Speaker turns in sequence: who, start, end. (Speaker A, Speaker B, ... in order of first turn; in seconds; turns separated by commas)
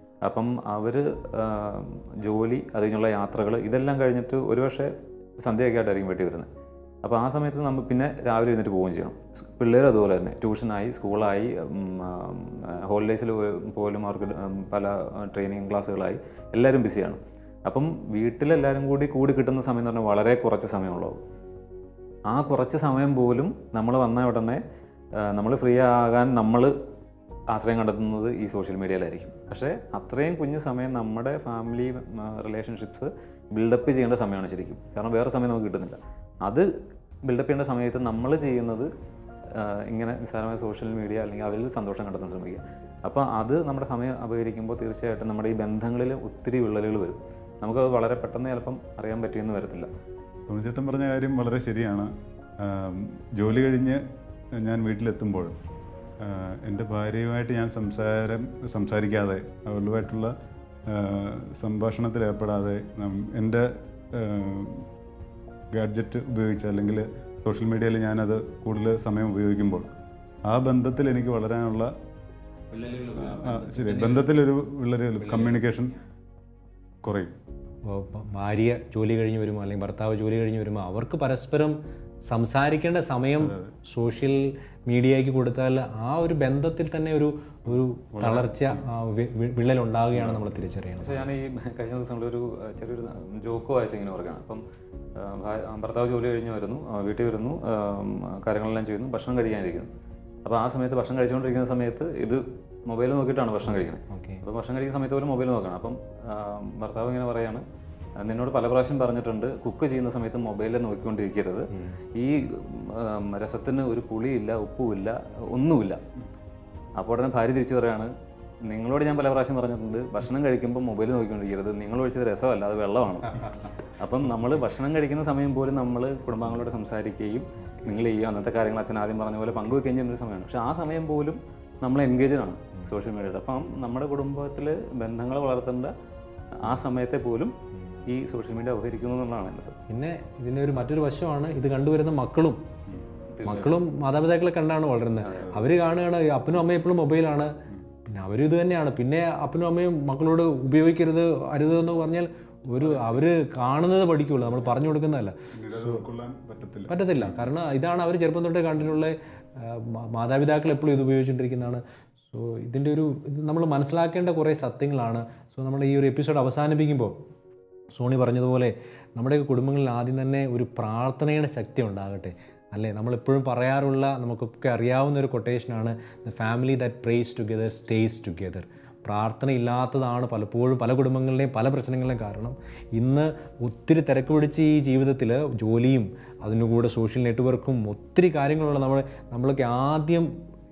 Speaker A: 0.2-6.5, Speaker A: 7.0-21.2, Speaker A: 22.3-24.6, Speaker A: 25.2-26.7, Speaker A: 27.5-36.7, Speaker A: 37.2-38.9, Speaker A: 39.5-49.9, Speaker B: 50.5-54.0, Speaker B: 54.6-55.5, Speaker B: 56.2-60.3, Speaker B: 60.9-64.9, Speaker B: 65.7-69.9, Speaker B: 70.4-71.9, Speaker C: 72.7-74.3, Speaker B: 73.2-76.0, Speaker C: 75.2-75.6, Speaker B: 77.0-77.3, Speaker C: 77.9-91.3, Speaker B: 88.1-88.8, Speaker B: 90.1-90.4, Speaker A: 91.0-94.6, Speaker A: 95.2-99.9, Speaker A: 100.4-107.6, Speaker C: 103.7-104.4, Speaker A: 108.2-116.0, Speaker C: 111.7-112.0, Speaker A: 117.0-118.1, Speaker A: 118.7-135.9, Speaker A: 136.6-137.5, Speaker A: 138.1-139.7, Speaker C: 139.9-142.6, Speaker A: 143.3-143.8, Speaker C: 143.4-147.5, Speaker A: 145.2-145.6, Speaker C: 148.0-156.0, Speaker B: 152.8-153.2, Speaker B: 155.5-157.5, Speaker C: 156.9-161.8, Speaker C: 162.3-167.1, Speaker C: 167.9-190.3